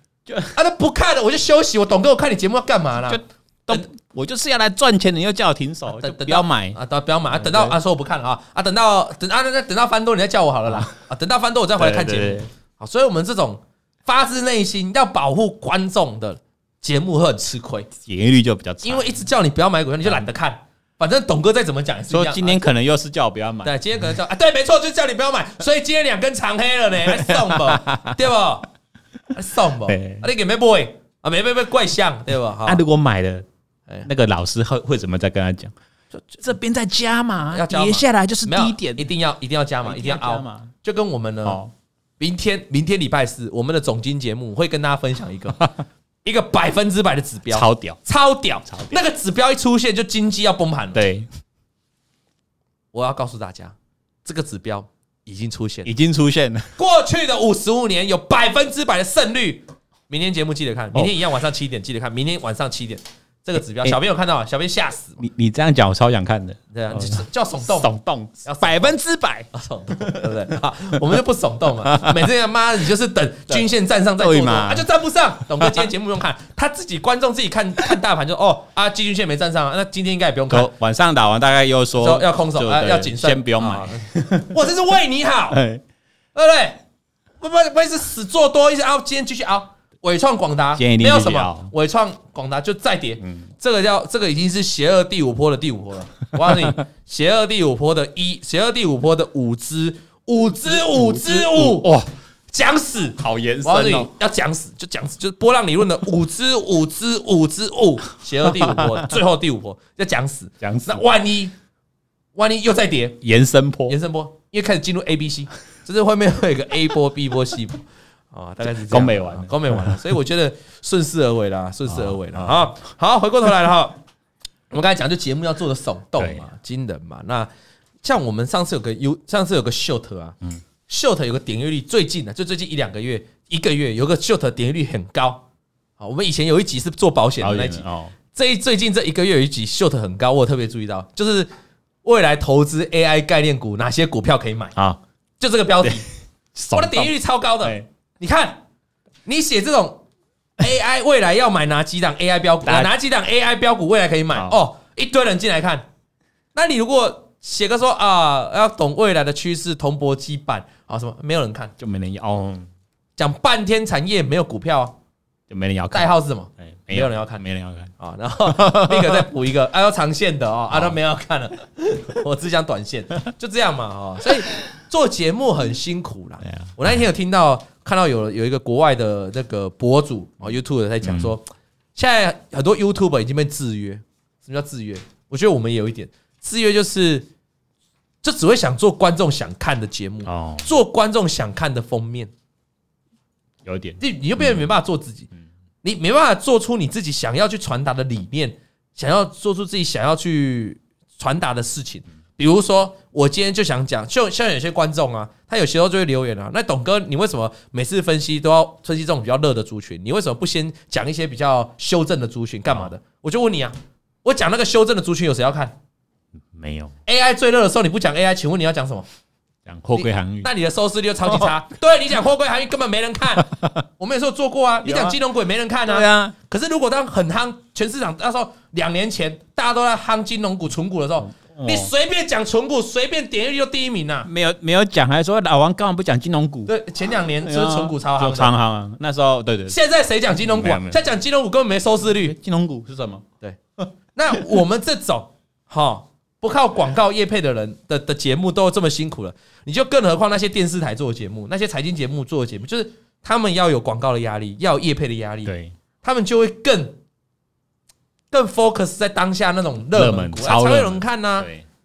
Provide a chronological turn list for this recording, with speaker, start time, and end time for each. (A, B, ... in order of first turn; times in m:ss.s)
0:00.3-0:00.5 A
0:00.5-0:03.9 B
0:03.0-0:06.8 A
0:05.9-0:17.9 B
0:07.3-0:07.8 A
0:11.8-0:12.5 A
0:18.0-0:19.0 A
0:18.8-0:22.6 B
0:22.1-0:23.7 A
0:23.6-0:28.7 B
0:27.0-0:28.2 A
0:29.3-0:32.8 B
0:29.8-0:30.3 A
0:32.6-0:33.4 A
0:34.0-0:35.7 A
0:36.4-0:39.1 A
0:37.5-0:41.6 B
0:39.8-0:40.7 A
0:41.4-0:41.7 A
0:42.2-0:45.7 B
0:46.2-0:51.0 B
0:47.5-0:48.0 A
0:48.7-0:49.0 A
0:50.9-0:51.3 A
0:52.9-0:55.9 B
0:55.8-0:56.7 A
0:56.8-1:05.2 B
1:05.2-1:10.4 A
1:06.7-1:07.9 B
1:08.4-1:09.0 B
1:09.5-1:20.7 B
1:11.8-1:12.3 A
1:13.5-1:14.9 A
1:15.6-1:15.9 A
1:20.5-1:24.6 A
1:22.0-1:25.6 B
1:25.5-1:25.8 A
1:26.3-1:26.8 B
1:27.4-1:41.9 B
1:30.7-1:31.7 A
1:33.2-1:33.5 A
1:40.7-1:42.1 A
1:42.5-1:51.5 B
1:43.2-1:44.1 A
1:48.4-1:49.1 A
1:50.6-1:51.0 A
1:52.3-1:53.2 B
1:53.2-1:54.0 A
1:53.9-2:04.0 B
1:58.9-2:00.0 A
2:01.9-2:02.7 A
2:04.7-2:07.5 B
2:06.2-2:06.4 A
2:08.0-2:15.4 B
2:16.0-2:21.5 B
2:17.4-2:18.1 A
2:22.0-2:24.8 B
2:25.4-2:26.0 B
2:26.5-2:27.9 A
2:26.7-2:28.6 B
2:29.2-2:30.0 B
2:30.6-2:35.8 B
2:32.6-2:32.9 A
2:34.3-2:34.6 A
2:36.5-2:41.7 B
2:41.8-2:42.7 A
2:43.2-2:44.9 B
2:45.5-2:47.9 A
2:45.9-2:47.4 B
2:48.0-3:07.3 B
2:48.4-2:49.3 A
2:50.7-2:51.0 A
2:56.4-2:56.7 A
3:01.0-3:01.3 A
3:08.2-3:12.3 B
3:10.2-3:10.7 A
3:13.6-3:14.7 A
3:14.0-3:15.3 B
3:15.8-3:35.7 B
3:36.5-3:36.9 A
3:37.0-3:39.1 B
3:39.6-3:40.5 A
3:39.9-3:54.3 B
3:41.2-3:41.5 A
3:43.4-3:43.8 A
3:44.8-3:45.2 A
3:45.8-3:46.3 A
3:51.3-3:51.9 A
3:54.2-3:56.7 A
3:56.6-3:58.5 B
3:57.4-3:59.8 A
3:59.7-4:02.3 B
4:00.4-4:01.0 A
4:02.2-4:03.2 A
4:04.1-4:17.0 B
4:15.4-4:15.7 A
4:18.3-4:21.5 B
4:19.9-4:21.6 A